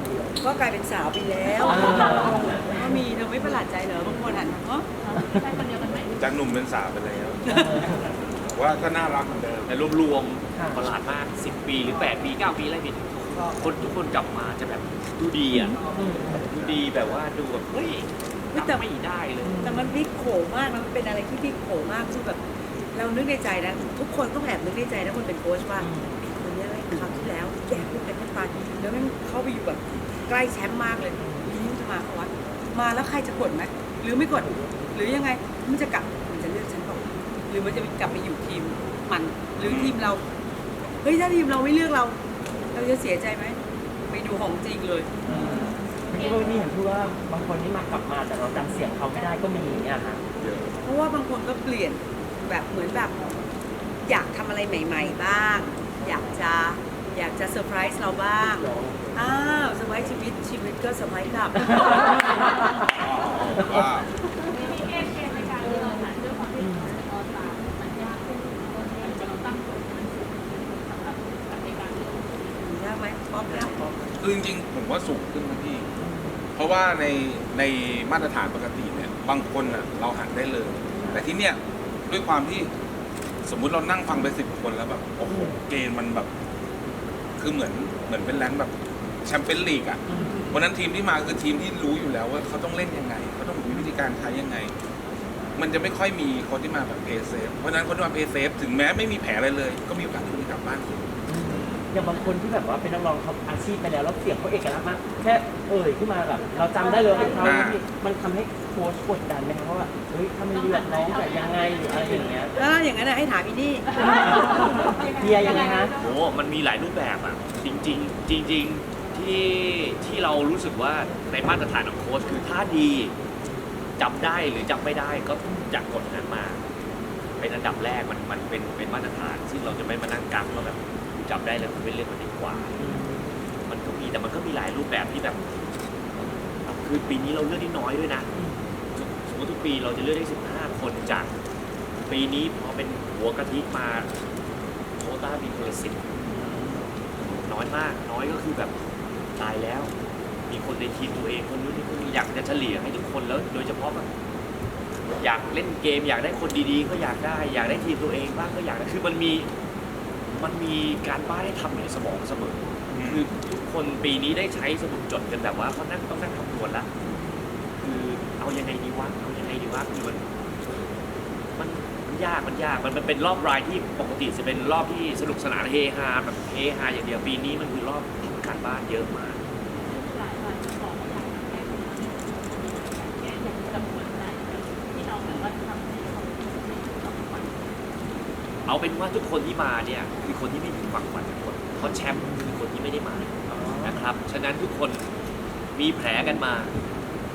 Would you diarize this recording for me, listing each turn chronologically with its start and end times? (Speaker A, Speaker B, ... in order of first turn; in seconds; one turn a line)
Speaker A: 0.4-4.9
Speaker B: 1.7-2.4
Speaker C: 5.0-6.1
Speaker D: 6.2-7.6
Speaker A: 7.5-7.8
Speaker D: 8.4-9.7
Speaker E: 9.7-19.7
Speaker B: 10.5-10.8
Speaker B: 15.9-16.4
Speaker A: 18.5-18.9
Speaker B: 19.4-19.9
Speaker A: 19.6-22.4
Speaker A: 22.9-40.2
Speaker B: 25.8-26.1
Speaker B: 31.2-31.5
Speaker B: 34.4-34.7
Speaker D: 39.6-40.0
Speaker A: 41.0-42.1
Speaker A: 42.7-45.1
Speaker B: 45.2-50.2
Speaker A: 50.8-53.2
Speaker A: 54.0-62.4
Speaker B: 58.6-59.0
Speaker D: 62.9-64.1
Speaker C: 64.5-72.5
Speaker A: 72.6-73.9
Speaker D: 74.2-75.9
Speaker B: 76.0-76.4
Speaker D: 76.5-82.7
Speaker D: 83.4-86.3
Speaker D: 87.4-88.7
Speaker D: 89.2-94.7
Speaker B: 90.1-90.4
Speaker D: 95.5-101.1
Speaker B: 101.3-112.5
Speaker E: 101.5-101.8
Speaker D: 107.4-107.8
Speaker C: 110.7-112.2
Speaker A: 112.5-113.9
Speaker B: 114.2-115.9
Speaker C: 114.8-115.5
Speaker E: 115.9-123.1
Speaker E: 124.0-126.6
Speaker E: 127.4-132.8
Speaker B: 132.8-133.3
Speaker E: 133.7-135.4
Speaker E: 136.7-138.3
Speaker E: 138.9-141.3
Speaker E: 142.1-144.1
Speaker E: 145.0-146.0
Speaker B: 146.3-146.8
Speaker E: 147.4-148.7
Speaker E: 149.4-149.9
Speaker E: 150.5-154.1
Speaker E: 155.2-159.5
Speaker E: 160.3-166.9
Speaker D: 162.9-163.2
Speaker E: 167.8-170.2
Speaker E: 171.6-179.4
Speaker C: 179.8-187.7
Speaker E: 188.7-195.1
Speaker B: 193.5-194.0
Speaker E: 195.7-196.7